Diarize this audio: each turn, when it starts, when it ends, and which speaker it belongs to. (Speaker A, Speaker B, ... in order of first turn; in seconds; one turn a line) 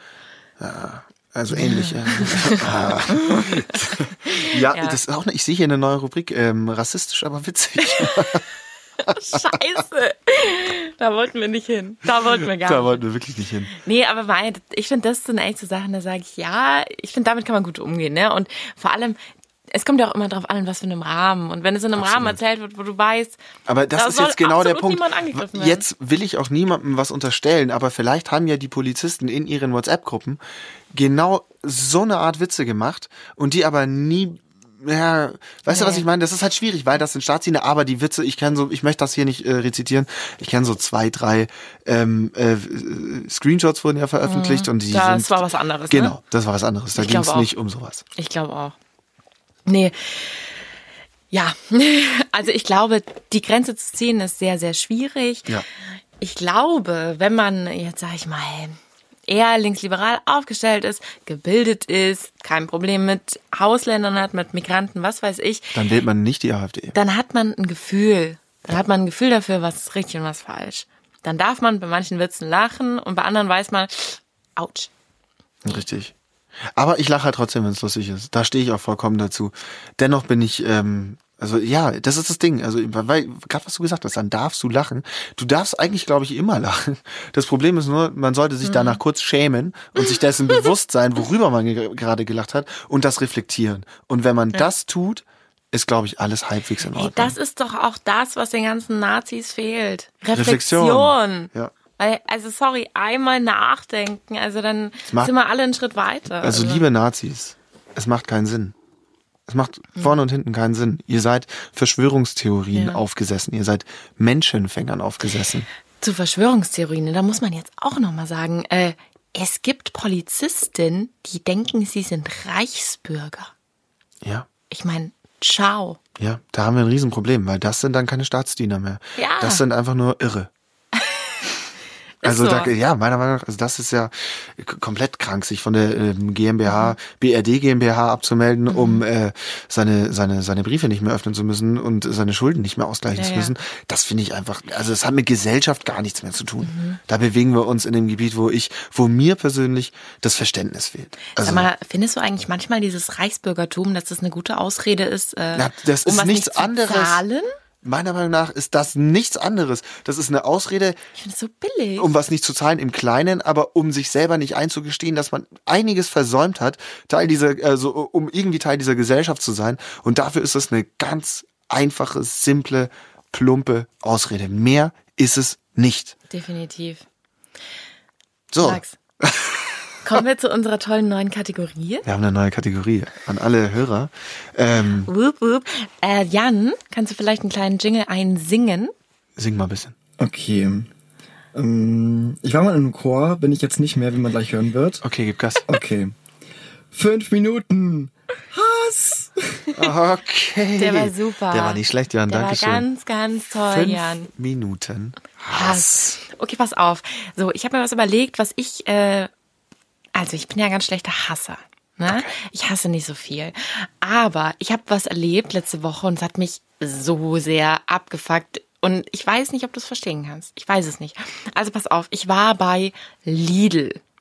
Speaker A: 0.6-8.4
Speaker B: 1.5-5.0
Speaker B: 7.8-8.3
Speaker B: 9.0-13.0
Speaker A: 12.6-13.7
Speaker B: 13.7-19.2
Speaker B: 19.7-23.4
Speaker A: 21.9-22.4
Speaker A: 23.7-30.4
Speaker B: 23.9-25.8
Speaker A: 30.9-48.0
Speaker B: 35.7-36.0
Speaker B: 44.2-46.1
Speaker B: 46.9-47.5
Speaker B: 48.1-48.8
Speaker B: 49.6-50.5
Speaker B: 51.3-55.5
Speaker B: 56.2-65.8
Speaker A: 65.7-66.9
Speaker B: 66.9-74.9
Speaker A: 75.6-76.1
Speaker A: 76.7-97.3
Speaker B: 88.6-89.0
Speaker B: 96.9-106.8
Speaker A: 100.3-101.7
Speaker A: 105.1-105.3
Speaker A: 106.4-108.7
Speaker A: 109.5-115.7
Speaker B: 112.7-113.0
Speaker B: 116.0-123.5
Speaker A: 124.2-124.5
Speaker B: 124.7-126.0
Speaker A: 126.2-130.5
Speaker B: 129.2-129.6
Speaker B: 131.0-131.3
Speaker B: 132.2-132.7
Speaker A: 132.2-151.7
Speaker B: 136.7-136.9
Speaker B: 138.7-139.0
Speaker B: 143.2-143.5
Speaker B: 146.6-147.0
Speaker B: 151.4-157.5
Speaker A: 155.5-157.2
Speaker A: 157.8-161.0
Speaker B: 161.2-162.1
Speaker A: 162.0-176.1
Speaker B: 176.3-177.0
Speaker A: 178.5-179.7
Speaker B: 178.6-179.0
Speaker B: 180.0-182.0
Speaker A: 182.0-185.1
Speaker B: 185.1-188.9
Speaker A: 189.3-189.9
Speaker C: 190.2-190.9
Speaker C: 191.5-195.0
Speaker A: 195.0-195.7
Speaker C: 195.7-196.1
Speaker C: 196.9-199.6
Speaker A: 199.7-202.8
Speaker B: 200.8-204.3
Speaker A: 203.7-206.2
Speaker B: 205.5-209.3
Speaker B: 210.1-224.0
Speaker A: 212.1-212.3